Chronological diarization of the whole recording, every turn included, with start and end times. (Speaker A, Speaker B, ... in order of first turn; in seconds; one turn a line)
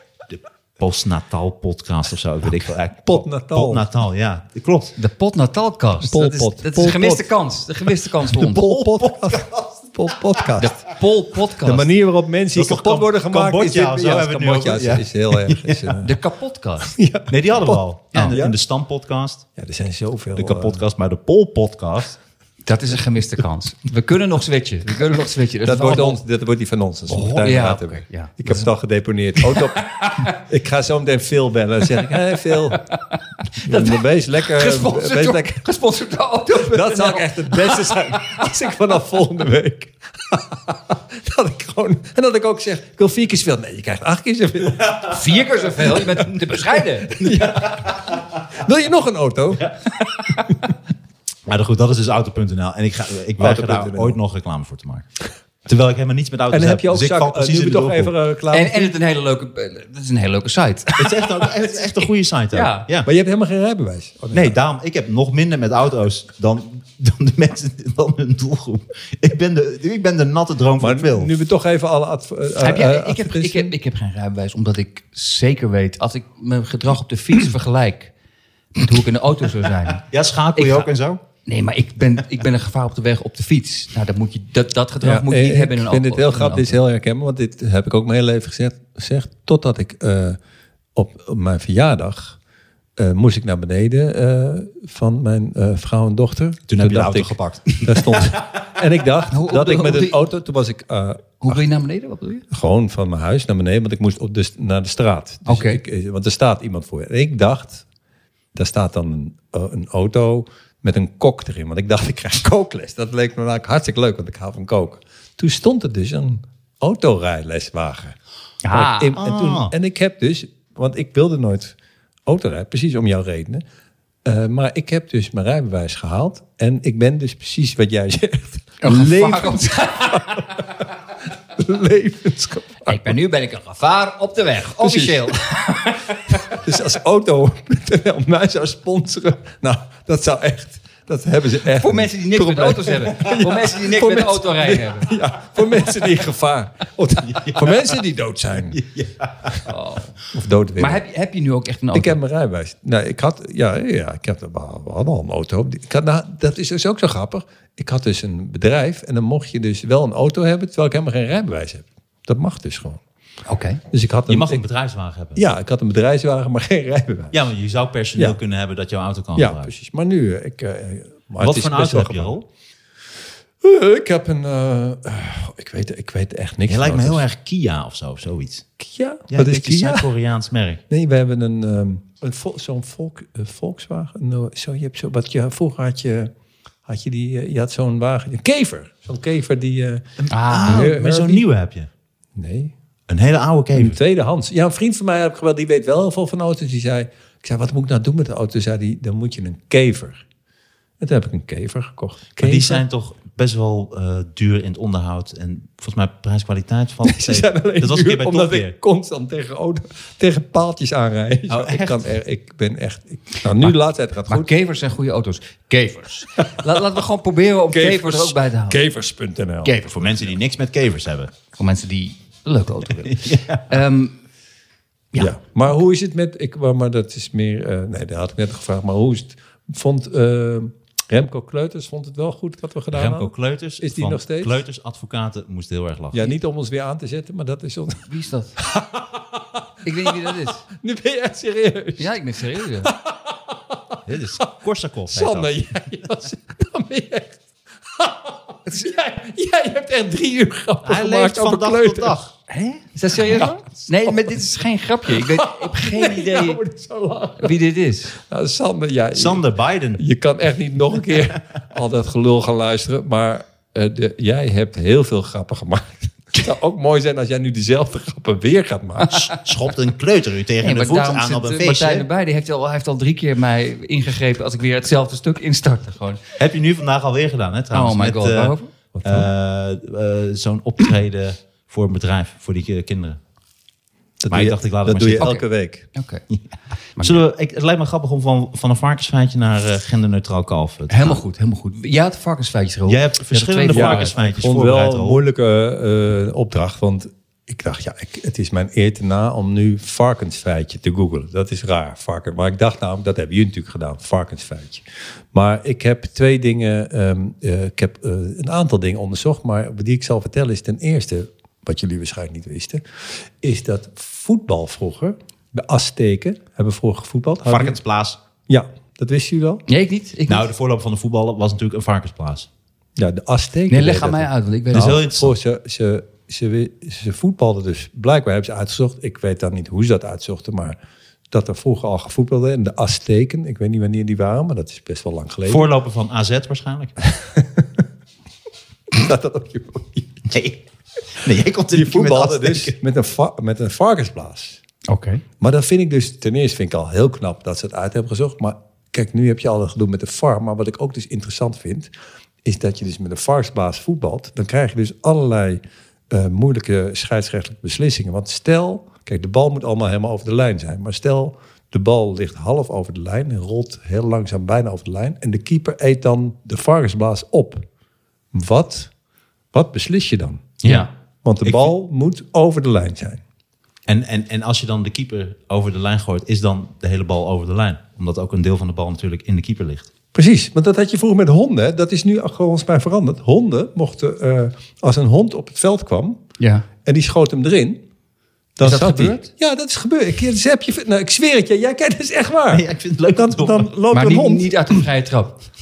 Speaker A: 0.3-5.0
Speaker B: 3.0-3.9
Speaker C: 5.0-8.9
Speaker B: 6.0-7.3
Speaker B: 8.2-10.8
Speaker A: 9.0-9.8
Speaker C: 10.6-11.9
Speaker B: 11.6-16.1
Speaker A: 12.6-16.0
Speaker C: 16.0-16.9
Speaker B: 16.8-18.6
Speaker A: 17.3-19.5
Speaker B: 19.6-20.8
Speaker A: 20.4-22.2
Speaker C: 22.6-26.2
Speaker B: 25.6-32.8
Speaker C: 27.1-28.6
Speaker C: 29.4-30.4
Speaker C: 32.7-38.5
Speaker B: 33.6-35.7
Speaker B: 36.5-45.2
Speaker C: 45.1-47.2
Speaker B: 45.8-49.7
Speaker C: 50.0-50.5
Speaker A: 51.5-55.1
Speaker B: 53.4-54.2
Speaker A: 55.7-58.1
Speaker B: 56.5-59.0
Speaker C: 58.5-62.9
Speaker A: 61.0-63.1
Speaker B: 63.0-64.6
Speaker A: 64.3-71.3
Speaker B: 70.8-73.7
Speaker C: 72.6-78.1
Speaker C: 78.8-80.0
Speaker A: 80.0-81.2
Speaker C: 80.6-80.9
Speaker C: 81.5-86.8
Speaker B: 85.0-90.4
Speaker B: 91.0-92.4
Speaker B: 93.0-101.6
Speaker A: 96.7-98.4
Speaker C: 99.3-100.2
Speaker C: 101.4-102.5
Speaker B: 102.5-107.8
Speaker C: 105.5-105.8
Speaker B: 108.5-118.2
Speaker C: 118.7-119.2
Speaker B: 118.7-121.8
Speaker A: 119.2-119.7
Speaker B: 122.3-123.6
Speaker B: 124.2-130.9
Speaker C: 128.8-130.5
Speaker B: 131.6-133.2
Speaker C: 132.9-136.6
Speaker B: 134.7-135.4
Speaker B: 136.5-148.8
Speaker C: 141.8-145.1
Speaker A: 147.3-148.0
Speaker A: 148.7-149.7
Speaker C: 149.7-150.1
Speaker B: 150.3-151.0
Speaker C: 150.8-152.2
Speaker B: 151.9-163.0
Speaker C: 163.5-163.8
Speaker B: 163.9-164.6
Speaker A: 164.3-165.4
Speaker B: 165.4-167.4
Speaker A: 167.3-169.7
Speaker B: 169.4-172.4
Speaker A: 171.4-172.4
Speaker B: 173.6-177.2
Speaker A: 176.7-178.7
Speaker B: 178.8-180.1
Speaker A: 179.3-180.8
Speaker B: 180.9-186.3
Speaker B: 186.9-190.0
Speaker A: 190.2-191.9
Speaker C: 190.3-190.9
Speaker B: 190.7-191.4
Speaker B: 192.3-192.7
Speaker A: 193.1-194.0
Speaker B: 193.8-200.2
Speaker B: 201.0-202.8
Speaker A: 202.4-208.7
Speaker B: 207.0-214.5
Speaker A: 211.5-212.1
Speaker C: 214.3-218.8
Speaker B: 217.7-219.8
Speaker C: 219.6-219.9
Speaker A: 219.8-221.3
Speaker C: 221.6-224.2
Speaker A: 223.0-223.8
Speaker B: 225.2-234.6
Speaker A: 232.9-236.3
Speaker B: 236.1-242.2
Speaker C: 238.1-238.6
Speaker C: 239.8-240.6
Speaker C: 242.0-242.9
Speaker B: 242.8-244.0
Speaker A: 244.1-245.6
Speaker B: 245.1-247.4
Speaker B: 247.9-252.2
Speaker C: 248.7-248.9
Speaker A: 250.8-252.3
Speaker C: 252.5-256.6
Speaker B: 253.3-254.3
Speaker B: 255.1-257.6
Speaker C: 257.4-258.1
Speaker B: 258.2-259.4
Speaker A: 259.1-260.0
Speaker B: 260.0-269.3
Speaker A: 261.1-261.4
Speaker C: 269.1-269.4
Speaker A: 269.4-272.1
Speaker C: 270.6-276.2
Speaker A: 276.4-278.5
Speaker C: 277.7-278.7
Speaker B: 278.9-279.3
Speaker A: 279.1-283.2
Speaker B: 284.2-285.9
Speaker A: 284.3-285.3
Speaker C: 285.2-285.4
Speaker C: 285.9-286.2
Speaker C: 287.0-287.2
Speaker A: 287.0-291.2
Speaker C: 290.9-294.1
Speaker A: 292.9-295.2
Speaker B: 293.7-317.8
Speaker A: 317.5-318.2
Speaker B: 318.5-319.6
Speaker C: 319.7-320.5
Speaker A: 320.3-322.5
Speaker B: 323.0-330.8
Speaker C: 323.7-325.2
Speaker A: 324.7-325.3
Speaker B: 331.3-335.7
Speaker A: 335.5-336.9
Speaker B: 337.1-337.8
Speaker B: 338.9-340.3
Speaker A: 340.3-340.6
Speaker A: 341.2-342.8
Speaker B: 341.7-344.6
Speaker C: 344.9-345.2
Speaker B: 345.4-351.9
Speaker B: 352.4-367.6
Speaker B: 368.3-368.9
Speaker B: 369.5-370.6
Speaker A: 370.6-370.9
Speaker B: 371.2-373.2
Speaker A: 371.4-371.7
Speaker A: 373.9-379.9
Speaker B: 380.1-386.2
Speaker C: 386.4-386.7
Speaker B: 386.9-387.8
Speaker B: 388.6-394.5
Speaker C: 388.6-389.3
Speaker A: 392.5-393.7
Speaker C: 393.9-395.4